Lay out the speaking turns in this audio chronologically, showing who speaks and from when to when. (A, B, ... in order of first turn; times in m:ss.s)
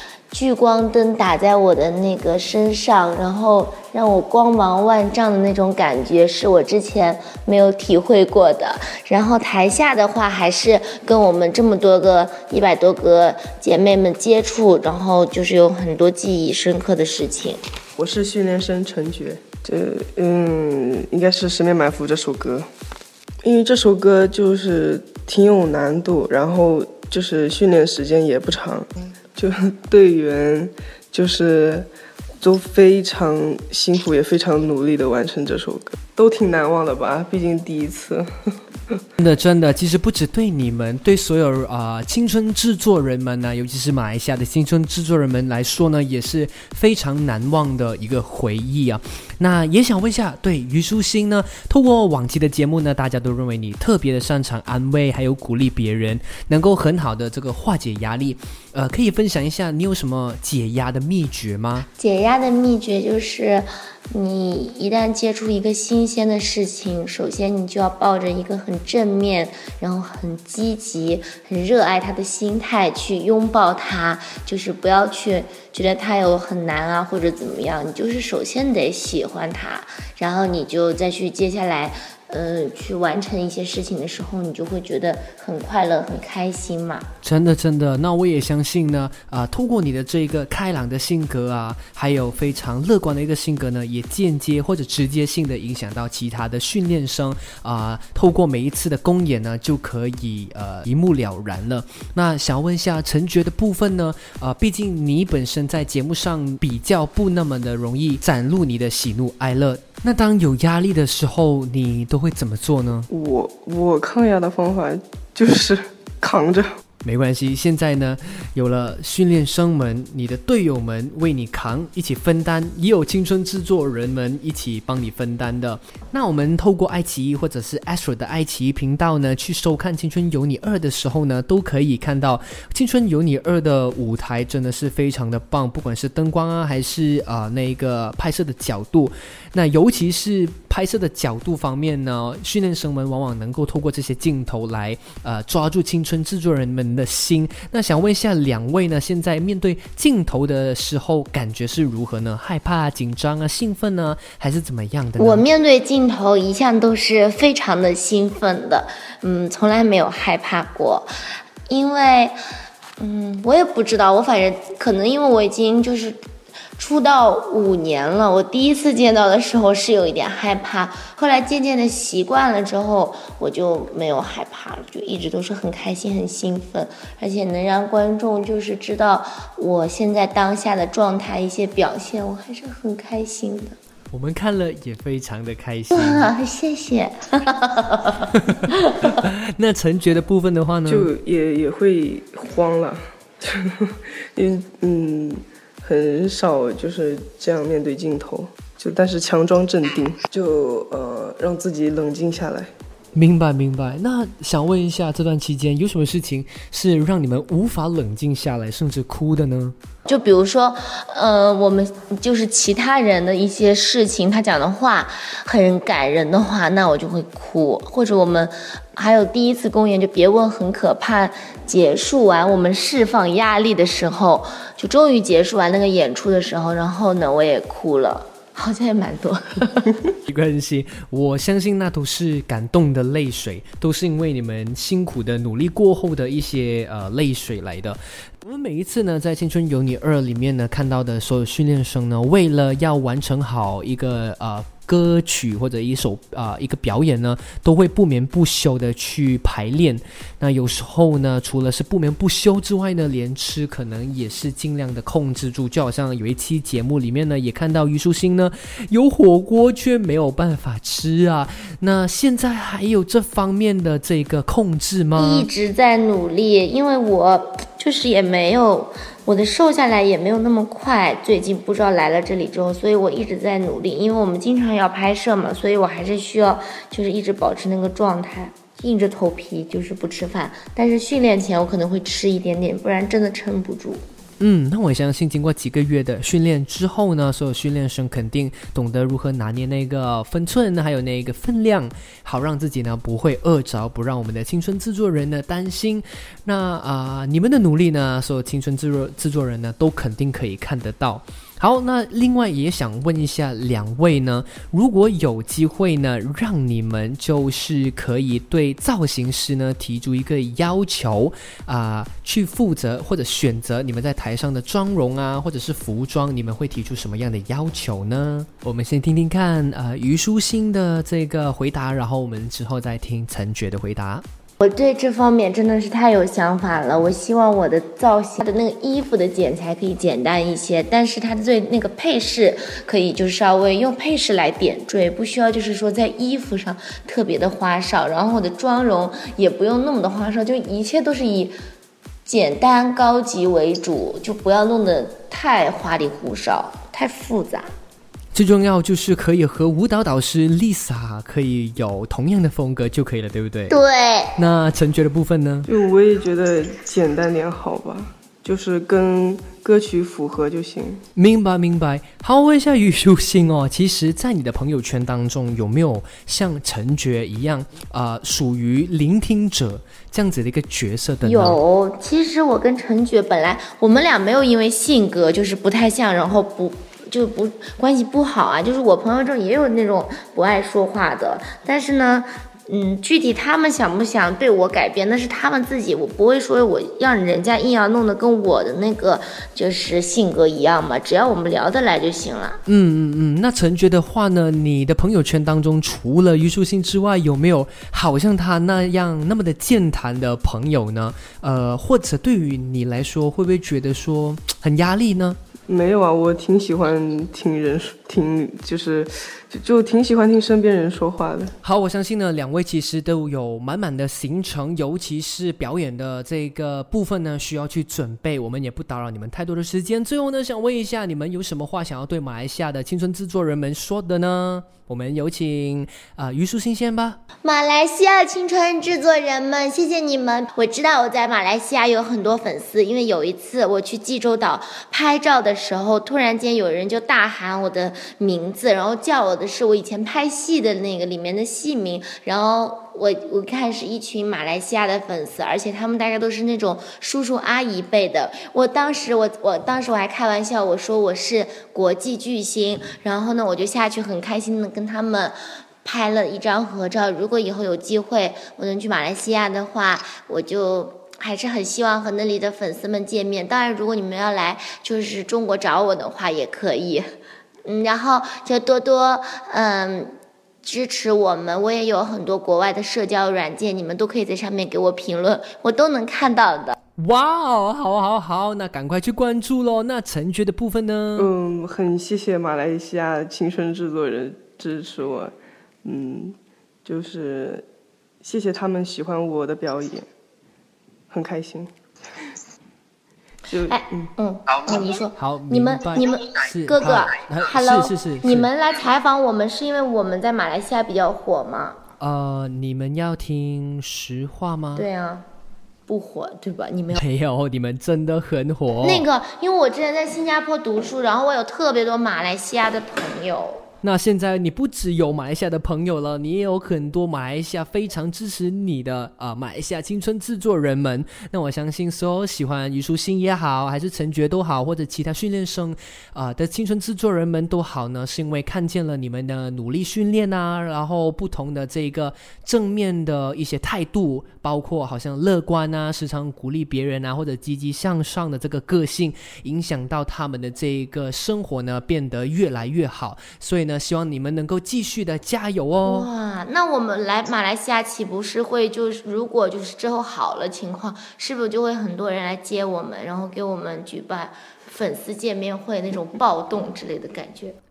0:00.3-0:17.6 A
0:18.0-0:22.7 B
0:23.4-0:31.9 B
0:32.4-0:38.3 B
0:39.2-1:01.9 C
1:02.0-1:27.1 A
1:27.2-1:53.1 C
1:53.1-1:56.7 B
1:57.0-2:35.4 C
2:35.2-2:41.1 A
2:41.7-2:42.3 A
2:43.0-2:46.2 A
2:46.8-3:03.8 A
3:04.1-3:06.3 C
3:05.9-3:09.2 A
3:08.4-3:11.1 C
3:10.9-3:22.7 B
3:23.1-3:29.7 C
3:30.0-3:50.1 A
3:50.2-4:25.5 C
4:25.1-4:44.0 A
4:44.4-5:24.2 C
5:24.6-5:41.5 A
5:42.2-5:47.7 A
5:48.3-5:53.8 C
5:53.7-5:54.3 A
5:54.4-5:55.7 C
5:55.7-6:01.0 B
6:01.2-6:11.6 C
6:11.2-6:32.6 A
6:32.6-6:45.4 C
6:45.7-6:51.5 B
6:51.6-7:07.2 C
7:07.4-7:47.0 A
7:47.6-7:56.7 A
7:57.0-8:01.3 C
8:01.2-8:07.6 B
8:08.2-8:10.0 B
8:11.1-8:11.7 B
8:13.5-8:14.1 B
8:13.7-8:21.8 A
8:15.2-8:18.5 C
8:22.0-8:24.9 C
8:24.8-8:25.2 A
8:25.9-8:27.0 A
8:26.9-8:29.0 C
8:28.8-8:33.6 A
8:33.8-9:06.1 C
9:05.8-9:17.6 A